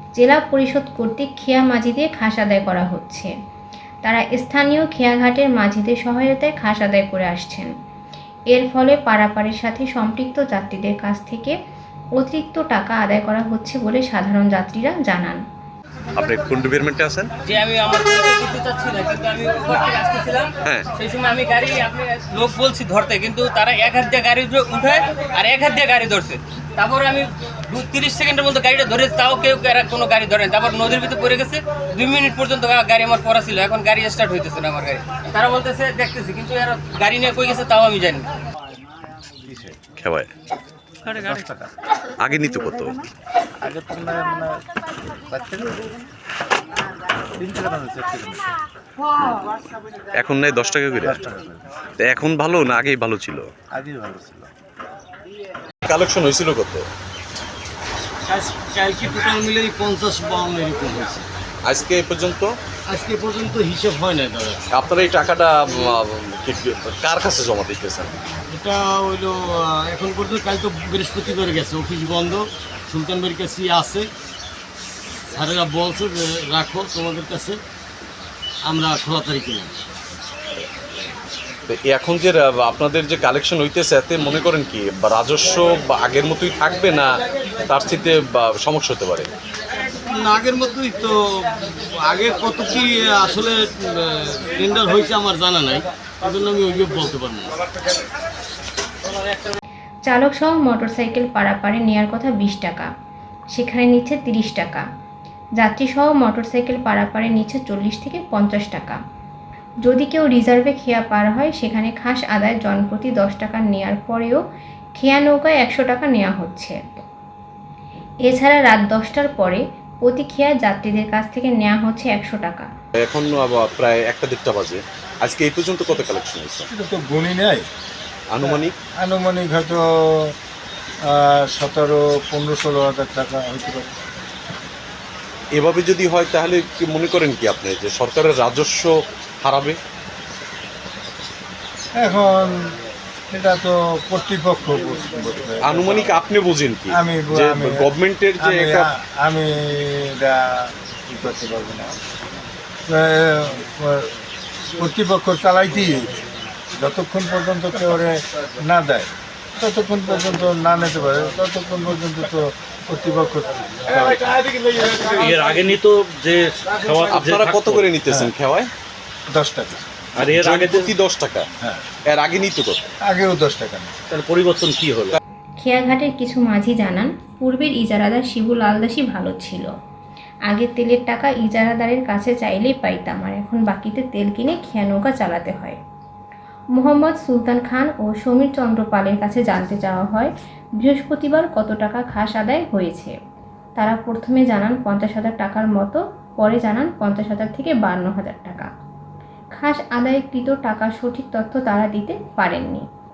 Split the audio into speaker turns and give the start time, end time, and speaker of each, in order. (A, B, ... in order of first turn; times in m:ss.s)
0:00.2-0:03.3 A
0:04.0-0:07.7 A
0:08.5-0:11.6 A
0:12.2-0:15.4 A
0:16.2-0:17.3 B
0:17.5-0:38.3 C
0:39.5-0:39.8 D
0:40.0-0:40.3 B
0:41.2-0:41.7 D
0:42.2-0:43.0 B
0:43.6-0:44.6 D
0:45.3-0:45.9 D
0:47.4-0:48.4 D
0:50.2-0:51.2 B
0:51.0-0:51.6 D
0:52.0-0:53.5 B
0:53.7-0:54.5 D
0:55.9-0:56.9 B
0:58.3-1:01.3 E
1:01.6-1:02.6 B
1:02.9-1:04.6 E
1:04.7-1:08.3 B
1:08.5-1:14.1 E
1:15.3-1:17.6 E
1:18.7-1:19.7 E
1:21.7-1:27.1 B
1:27.7-1:29.3 B
1:30.1-1:37.6 E
1:40.1-1:42.9 A
1:43.5-1:44.9 A
1:45.6-1:49.0 A
1:49.8-1:54.4 A
1:55.0-1:57.0 A
1:58.3-2:02.7 A
2:03.0-2:06.7 B
2:06.7-2:07.7 F
2:08.3-2:08.7 B
2:08.4-2:10.3 F
2:11.1-2:13.9 F
2:15.6-2:19.8 B
2:22.0-2:22.6 F
2:23.3-2:26.1 F
2:25.6-2:28.9 B
2:26.9-2:27.9 F
2:28.4-2:32.0 F
2:32.9-2:34.1 F
2:34.8-2:36.2 F
2:36.8-2:44.2 F
2:43.9-2:48.0 G
2:47.1-2:48.7 B
2:49.3-2:49.8 F
2:50.2-2:50.9 G
2:50.2-2:51.5 B
2:52.1-2:52.8 B
2:53.1-2:53.9 F
2:54.1-2:55.2 G
2:55.6-2:59.7 A
3:00.5-3:05.8 A
3:06.8-3:13.2 A
3:13.8-3:18.7 A
3:19.6-3:22.8 A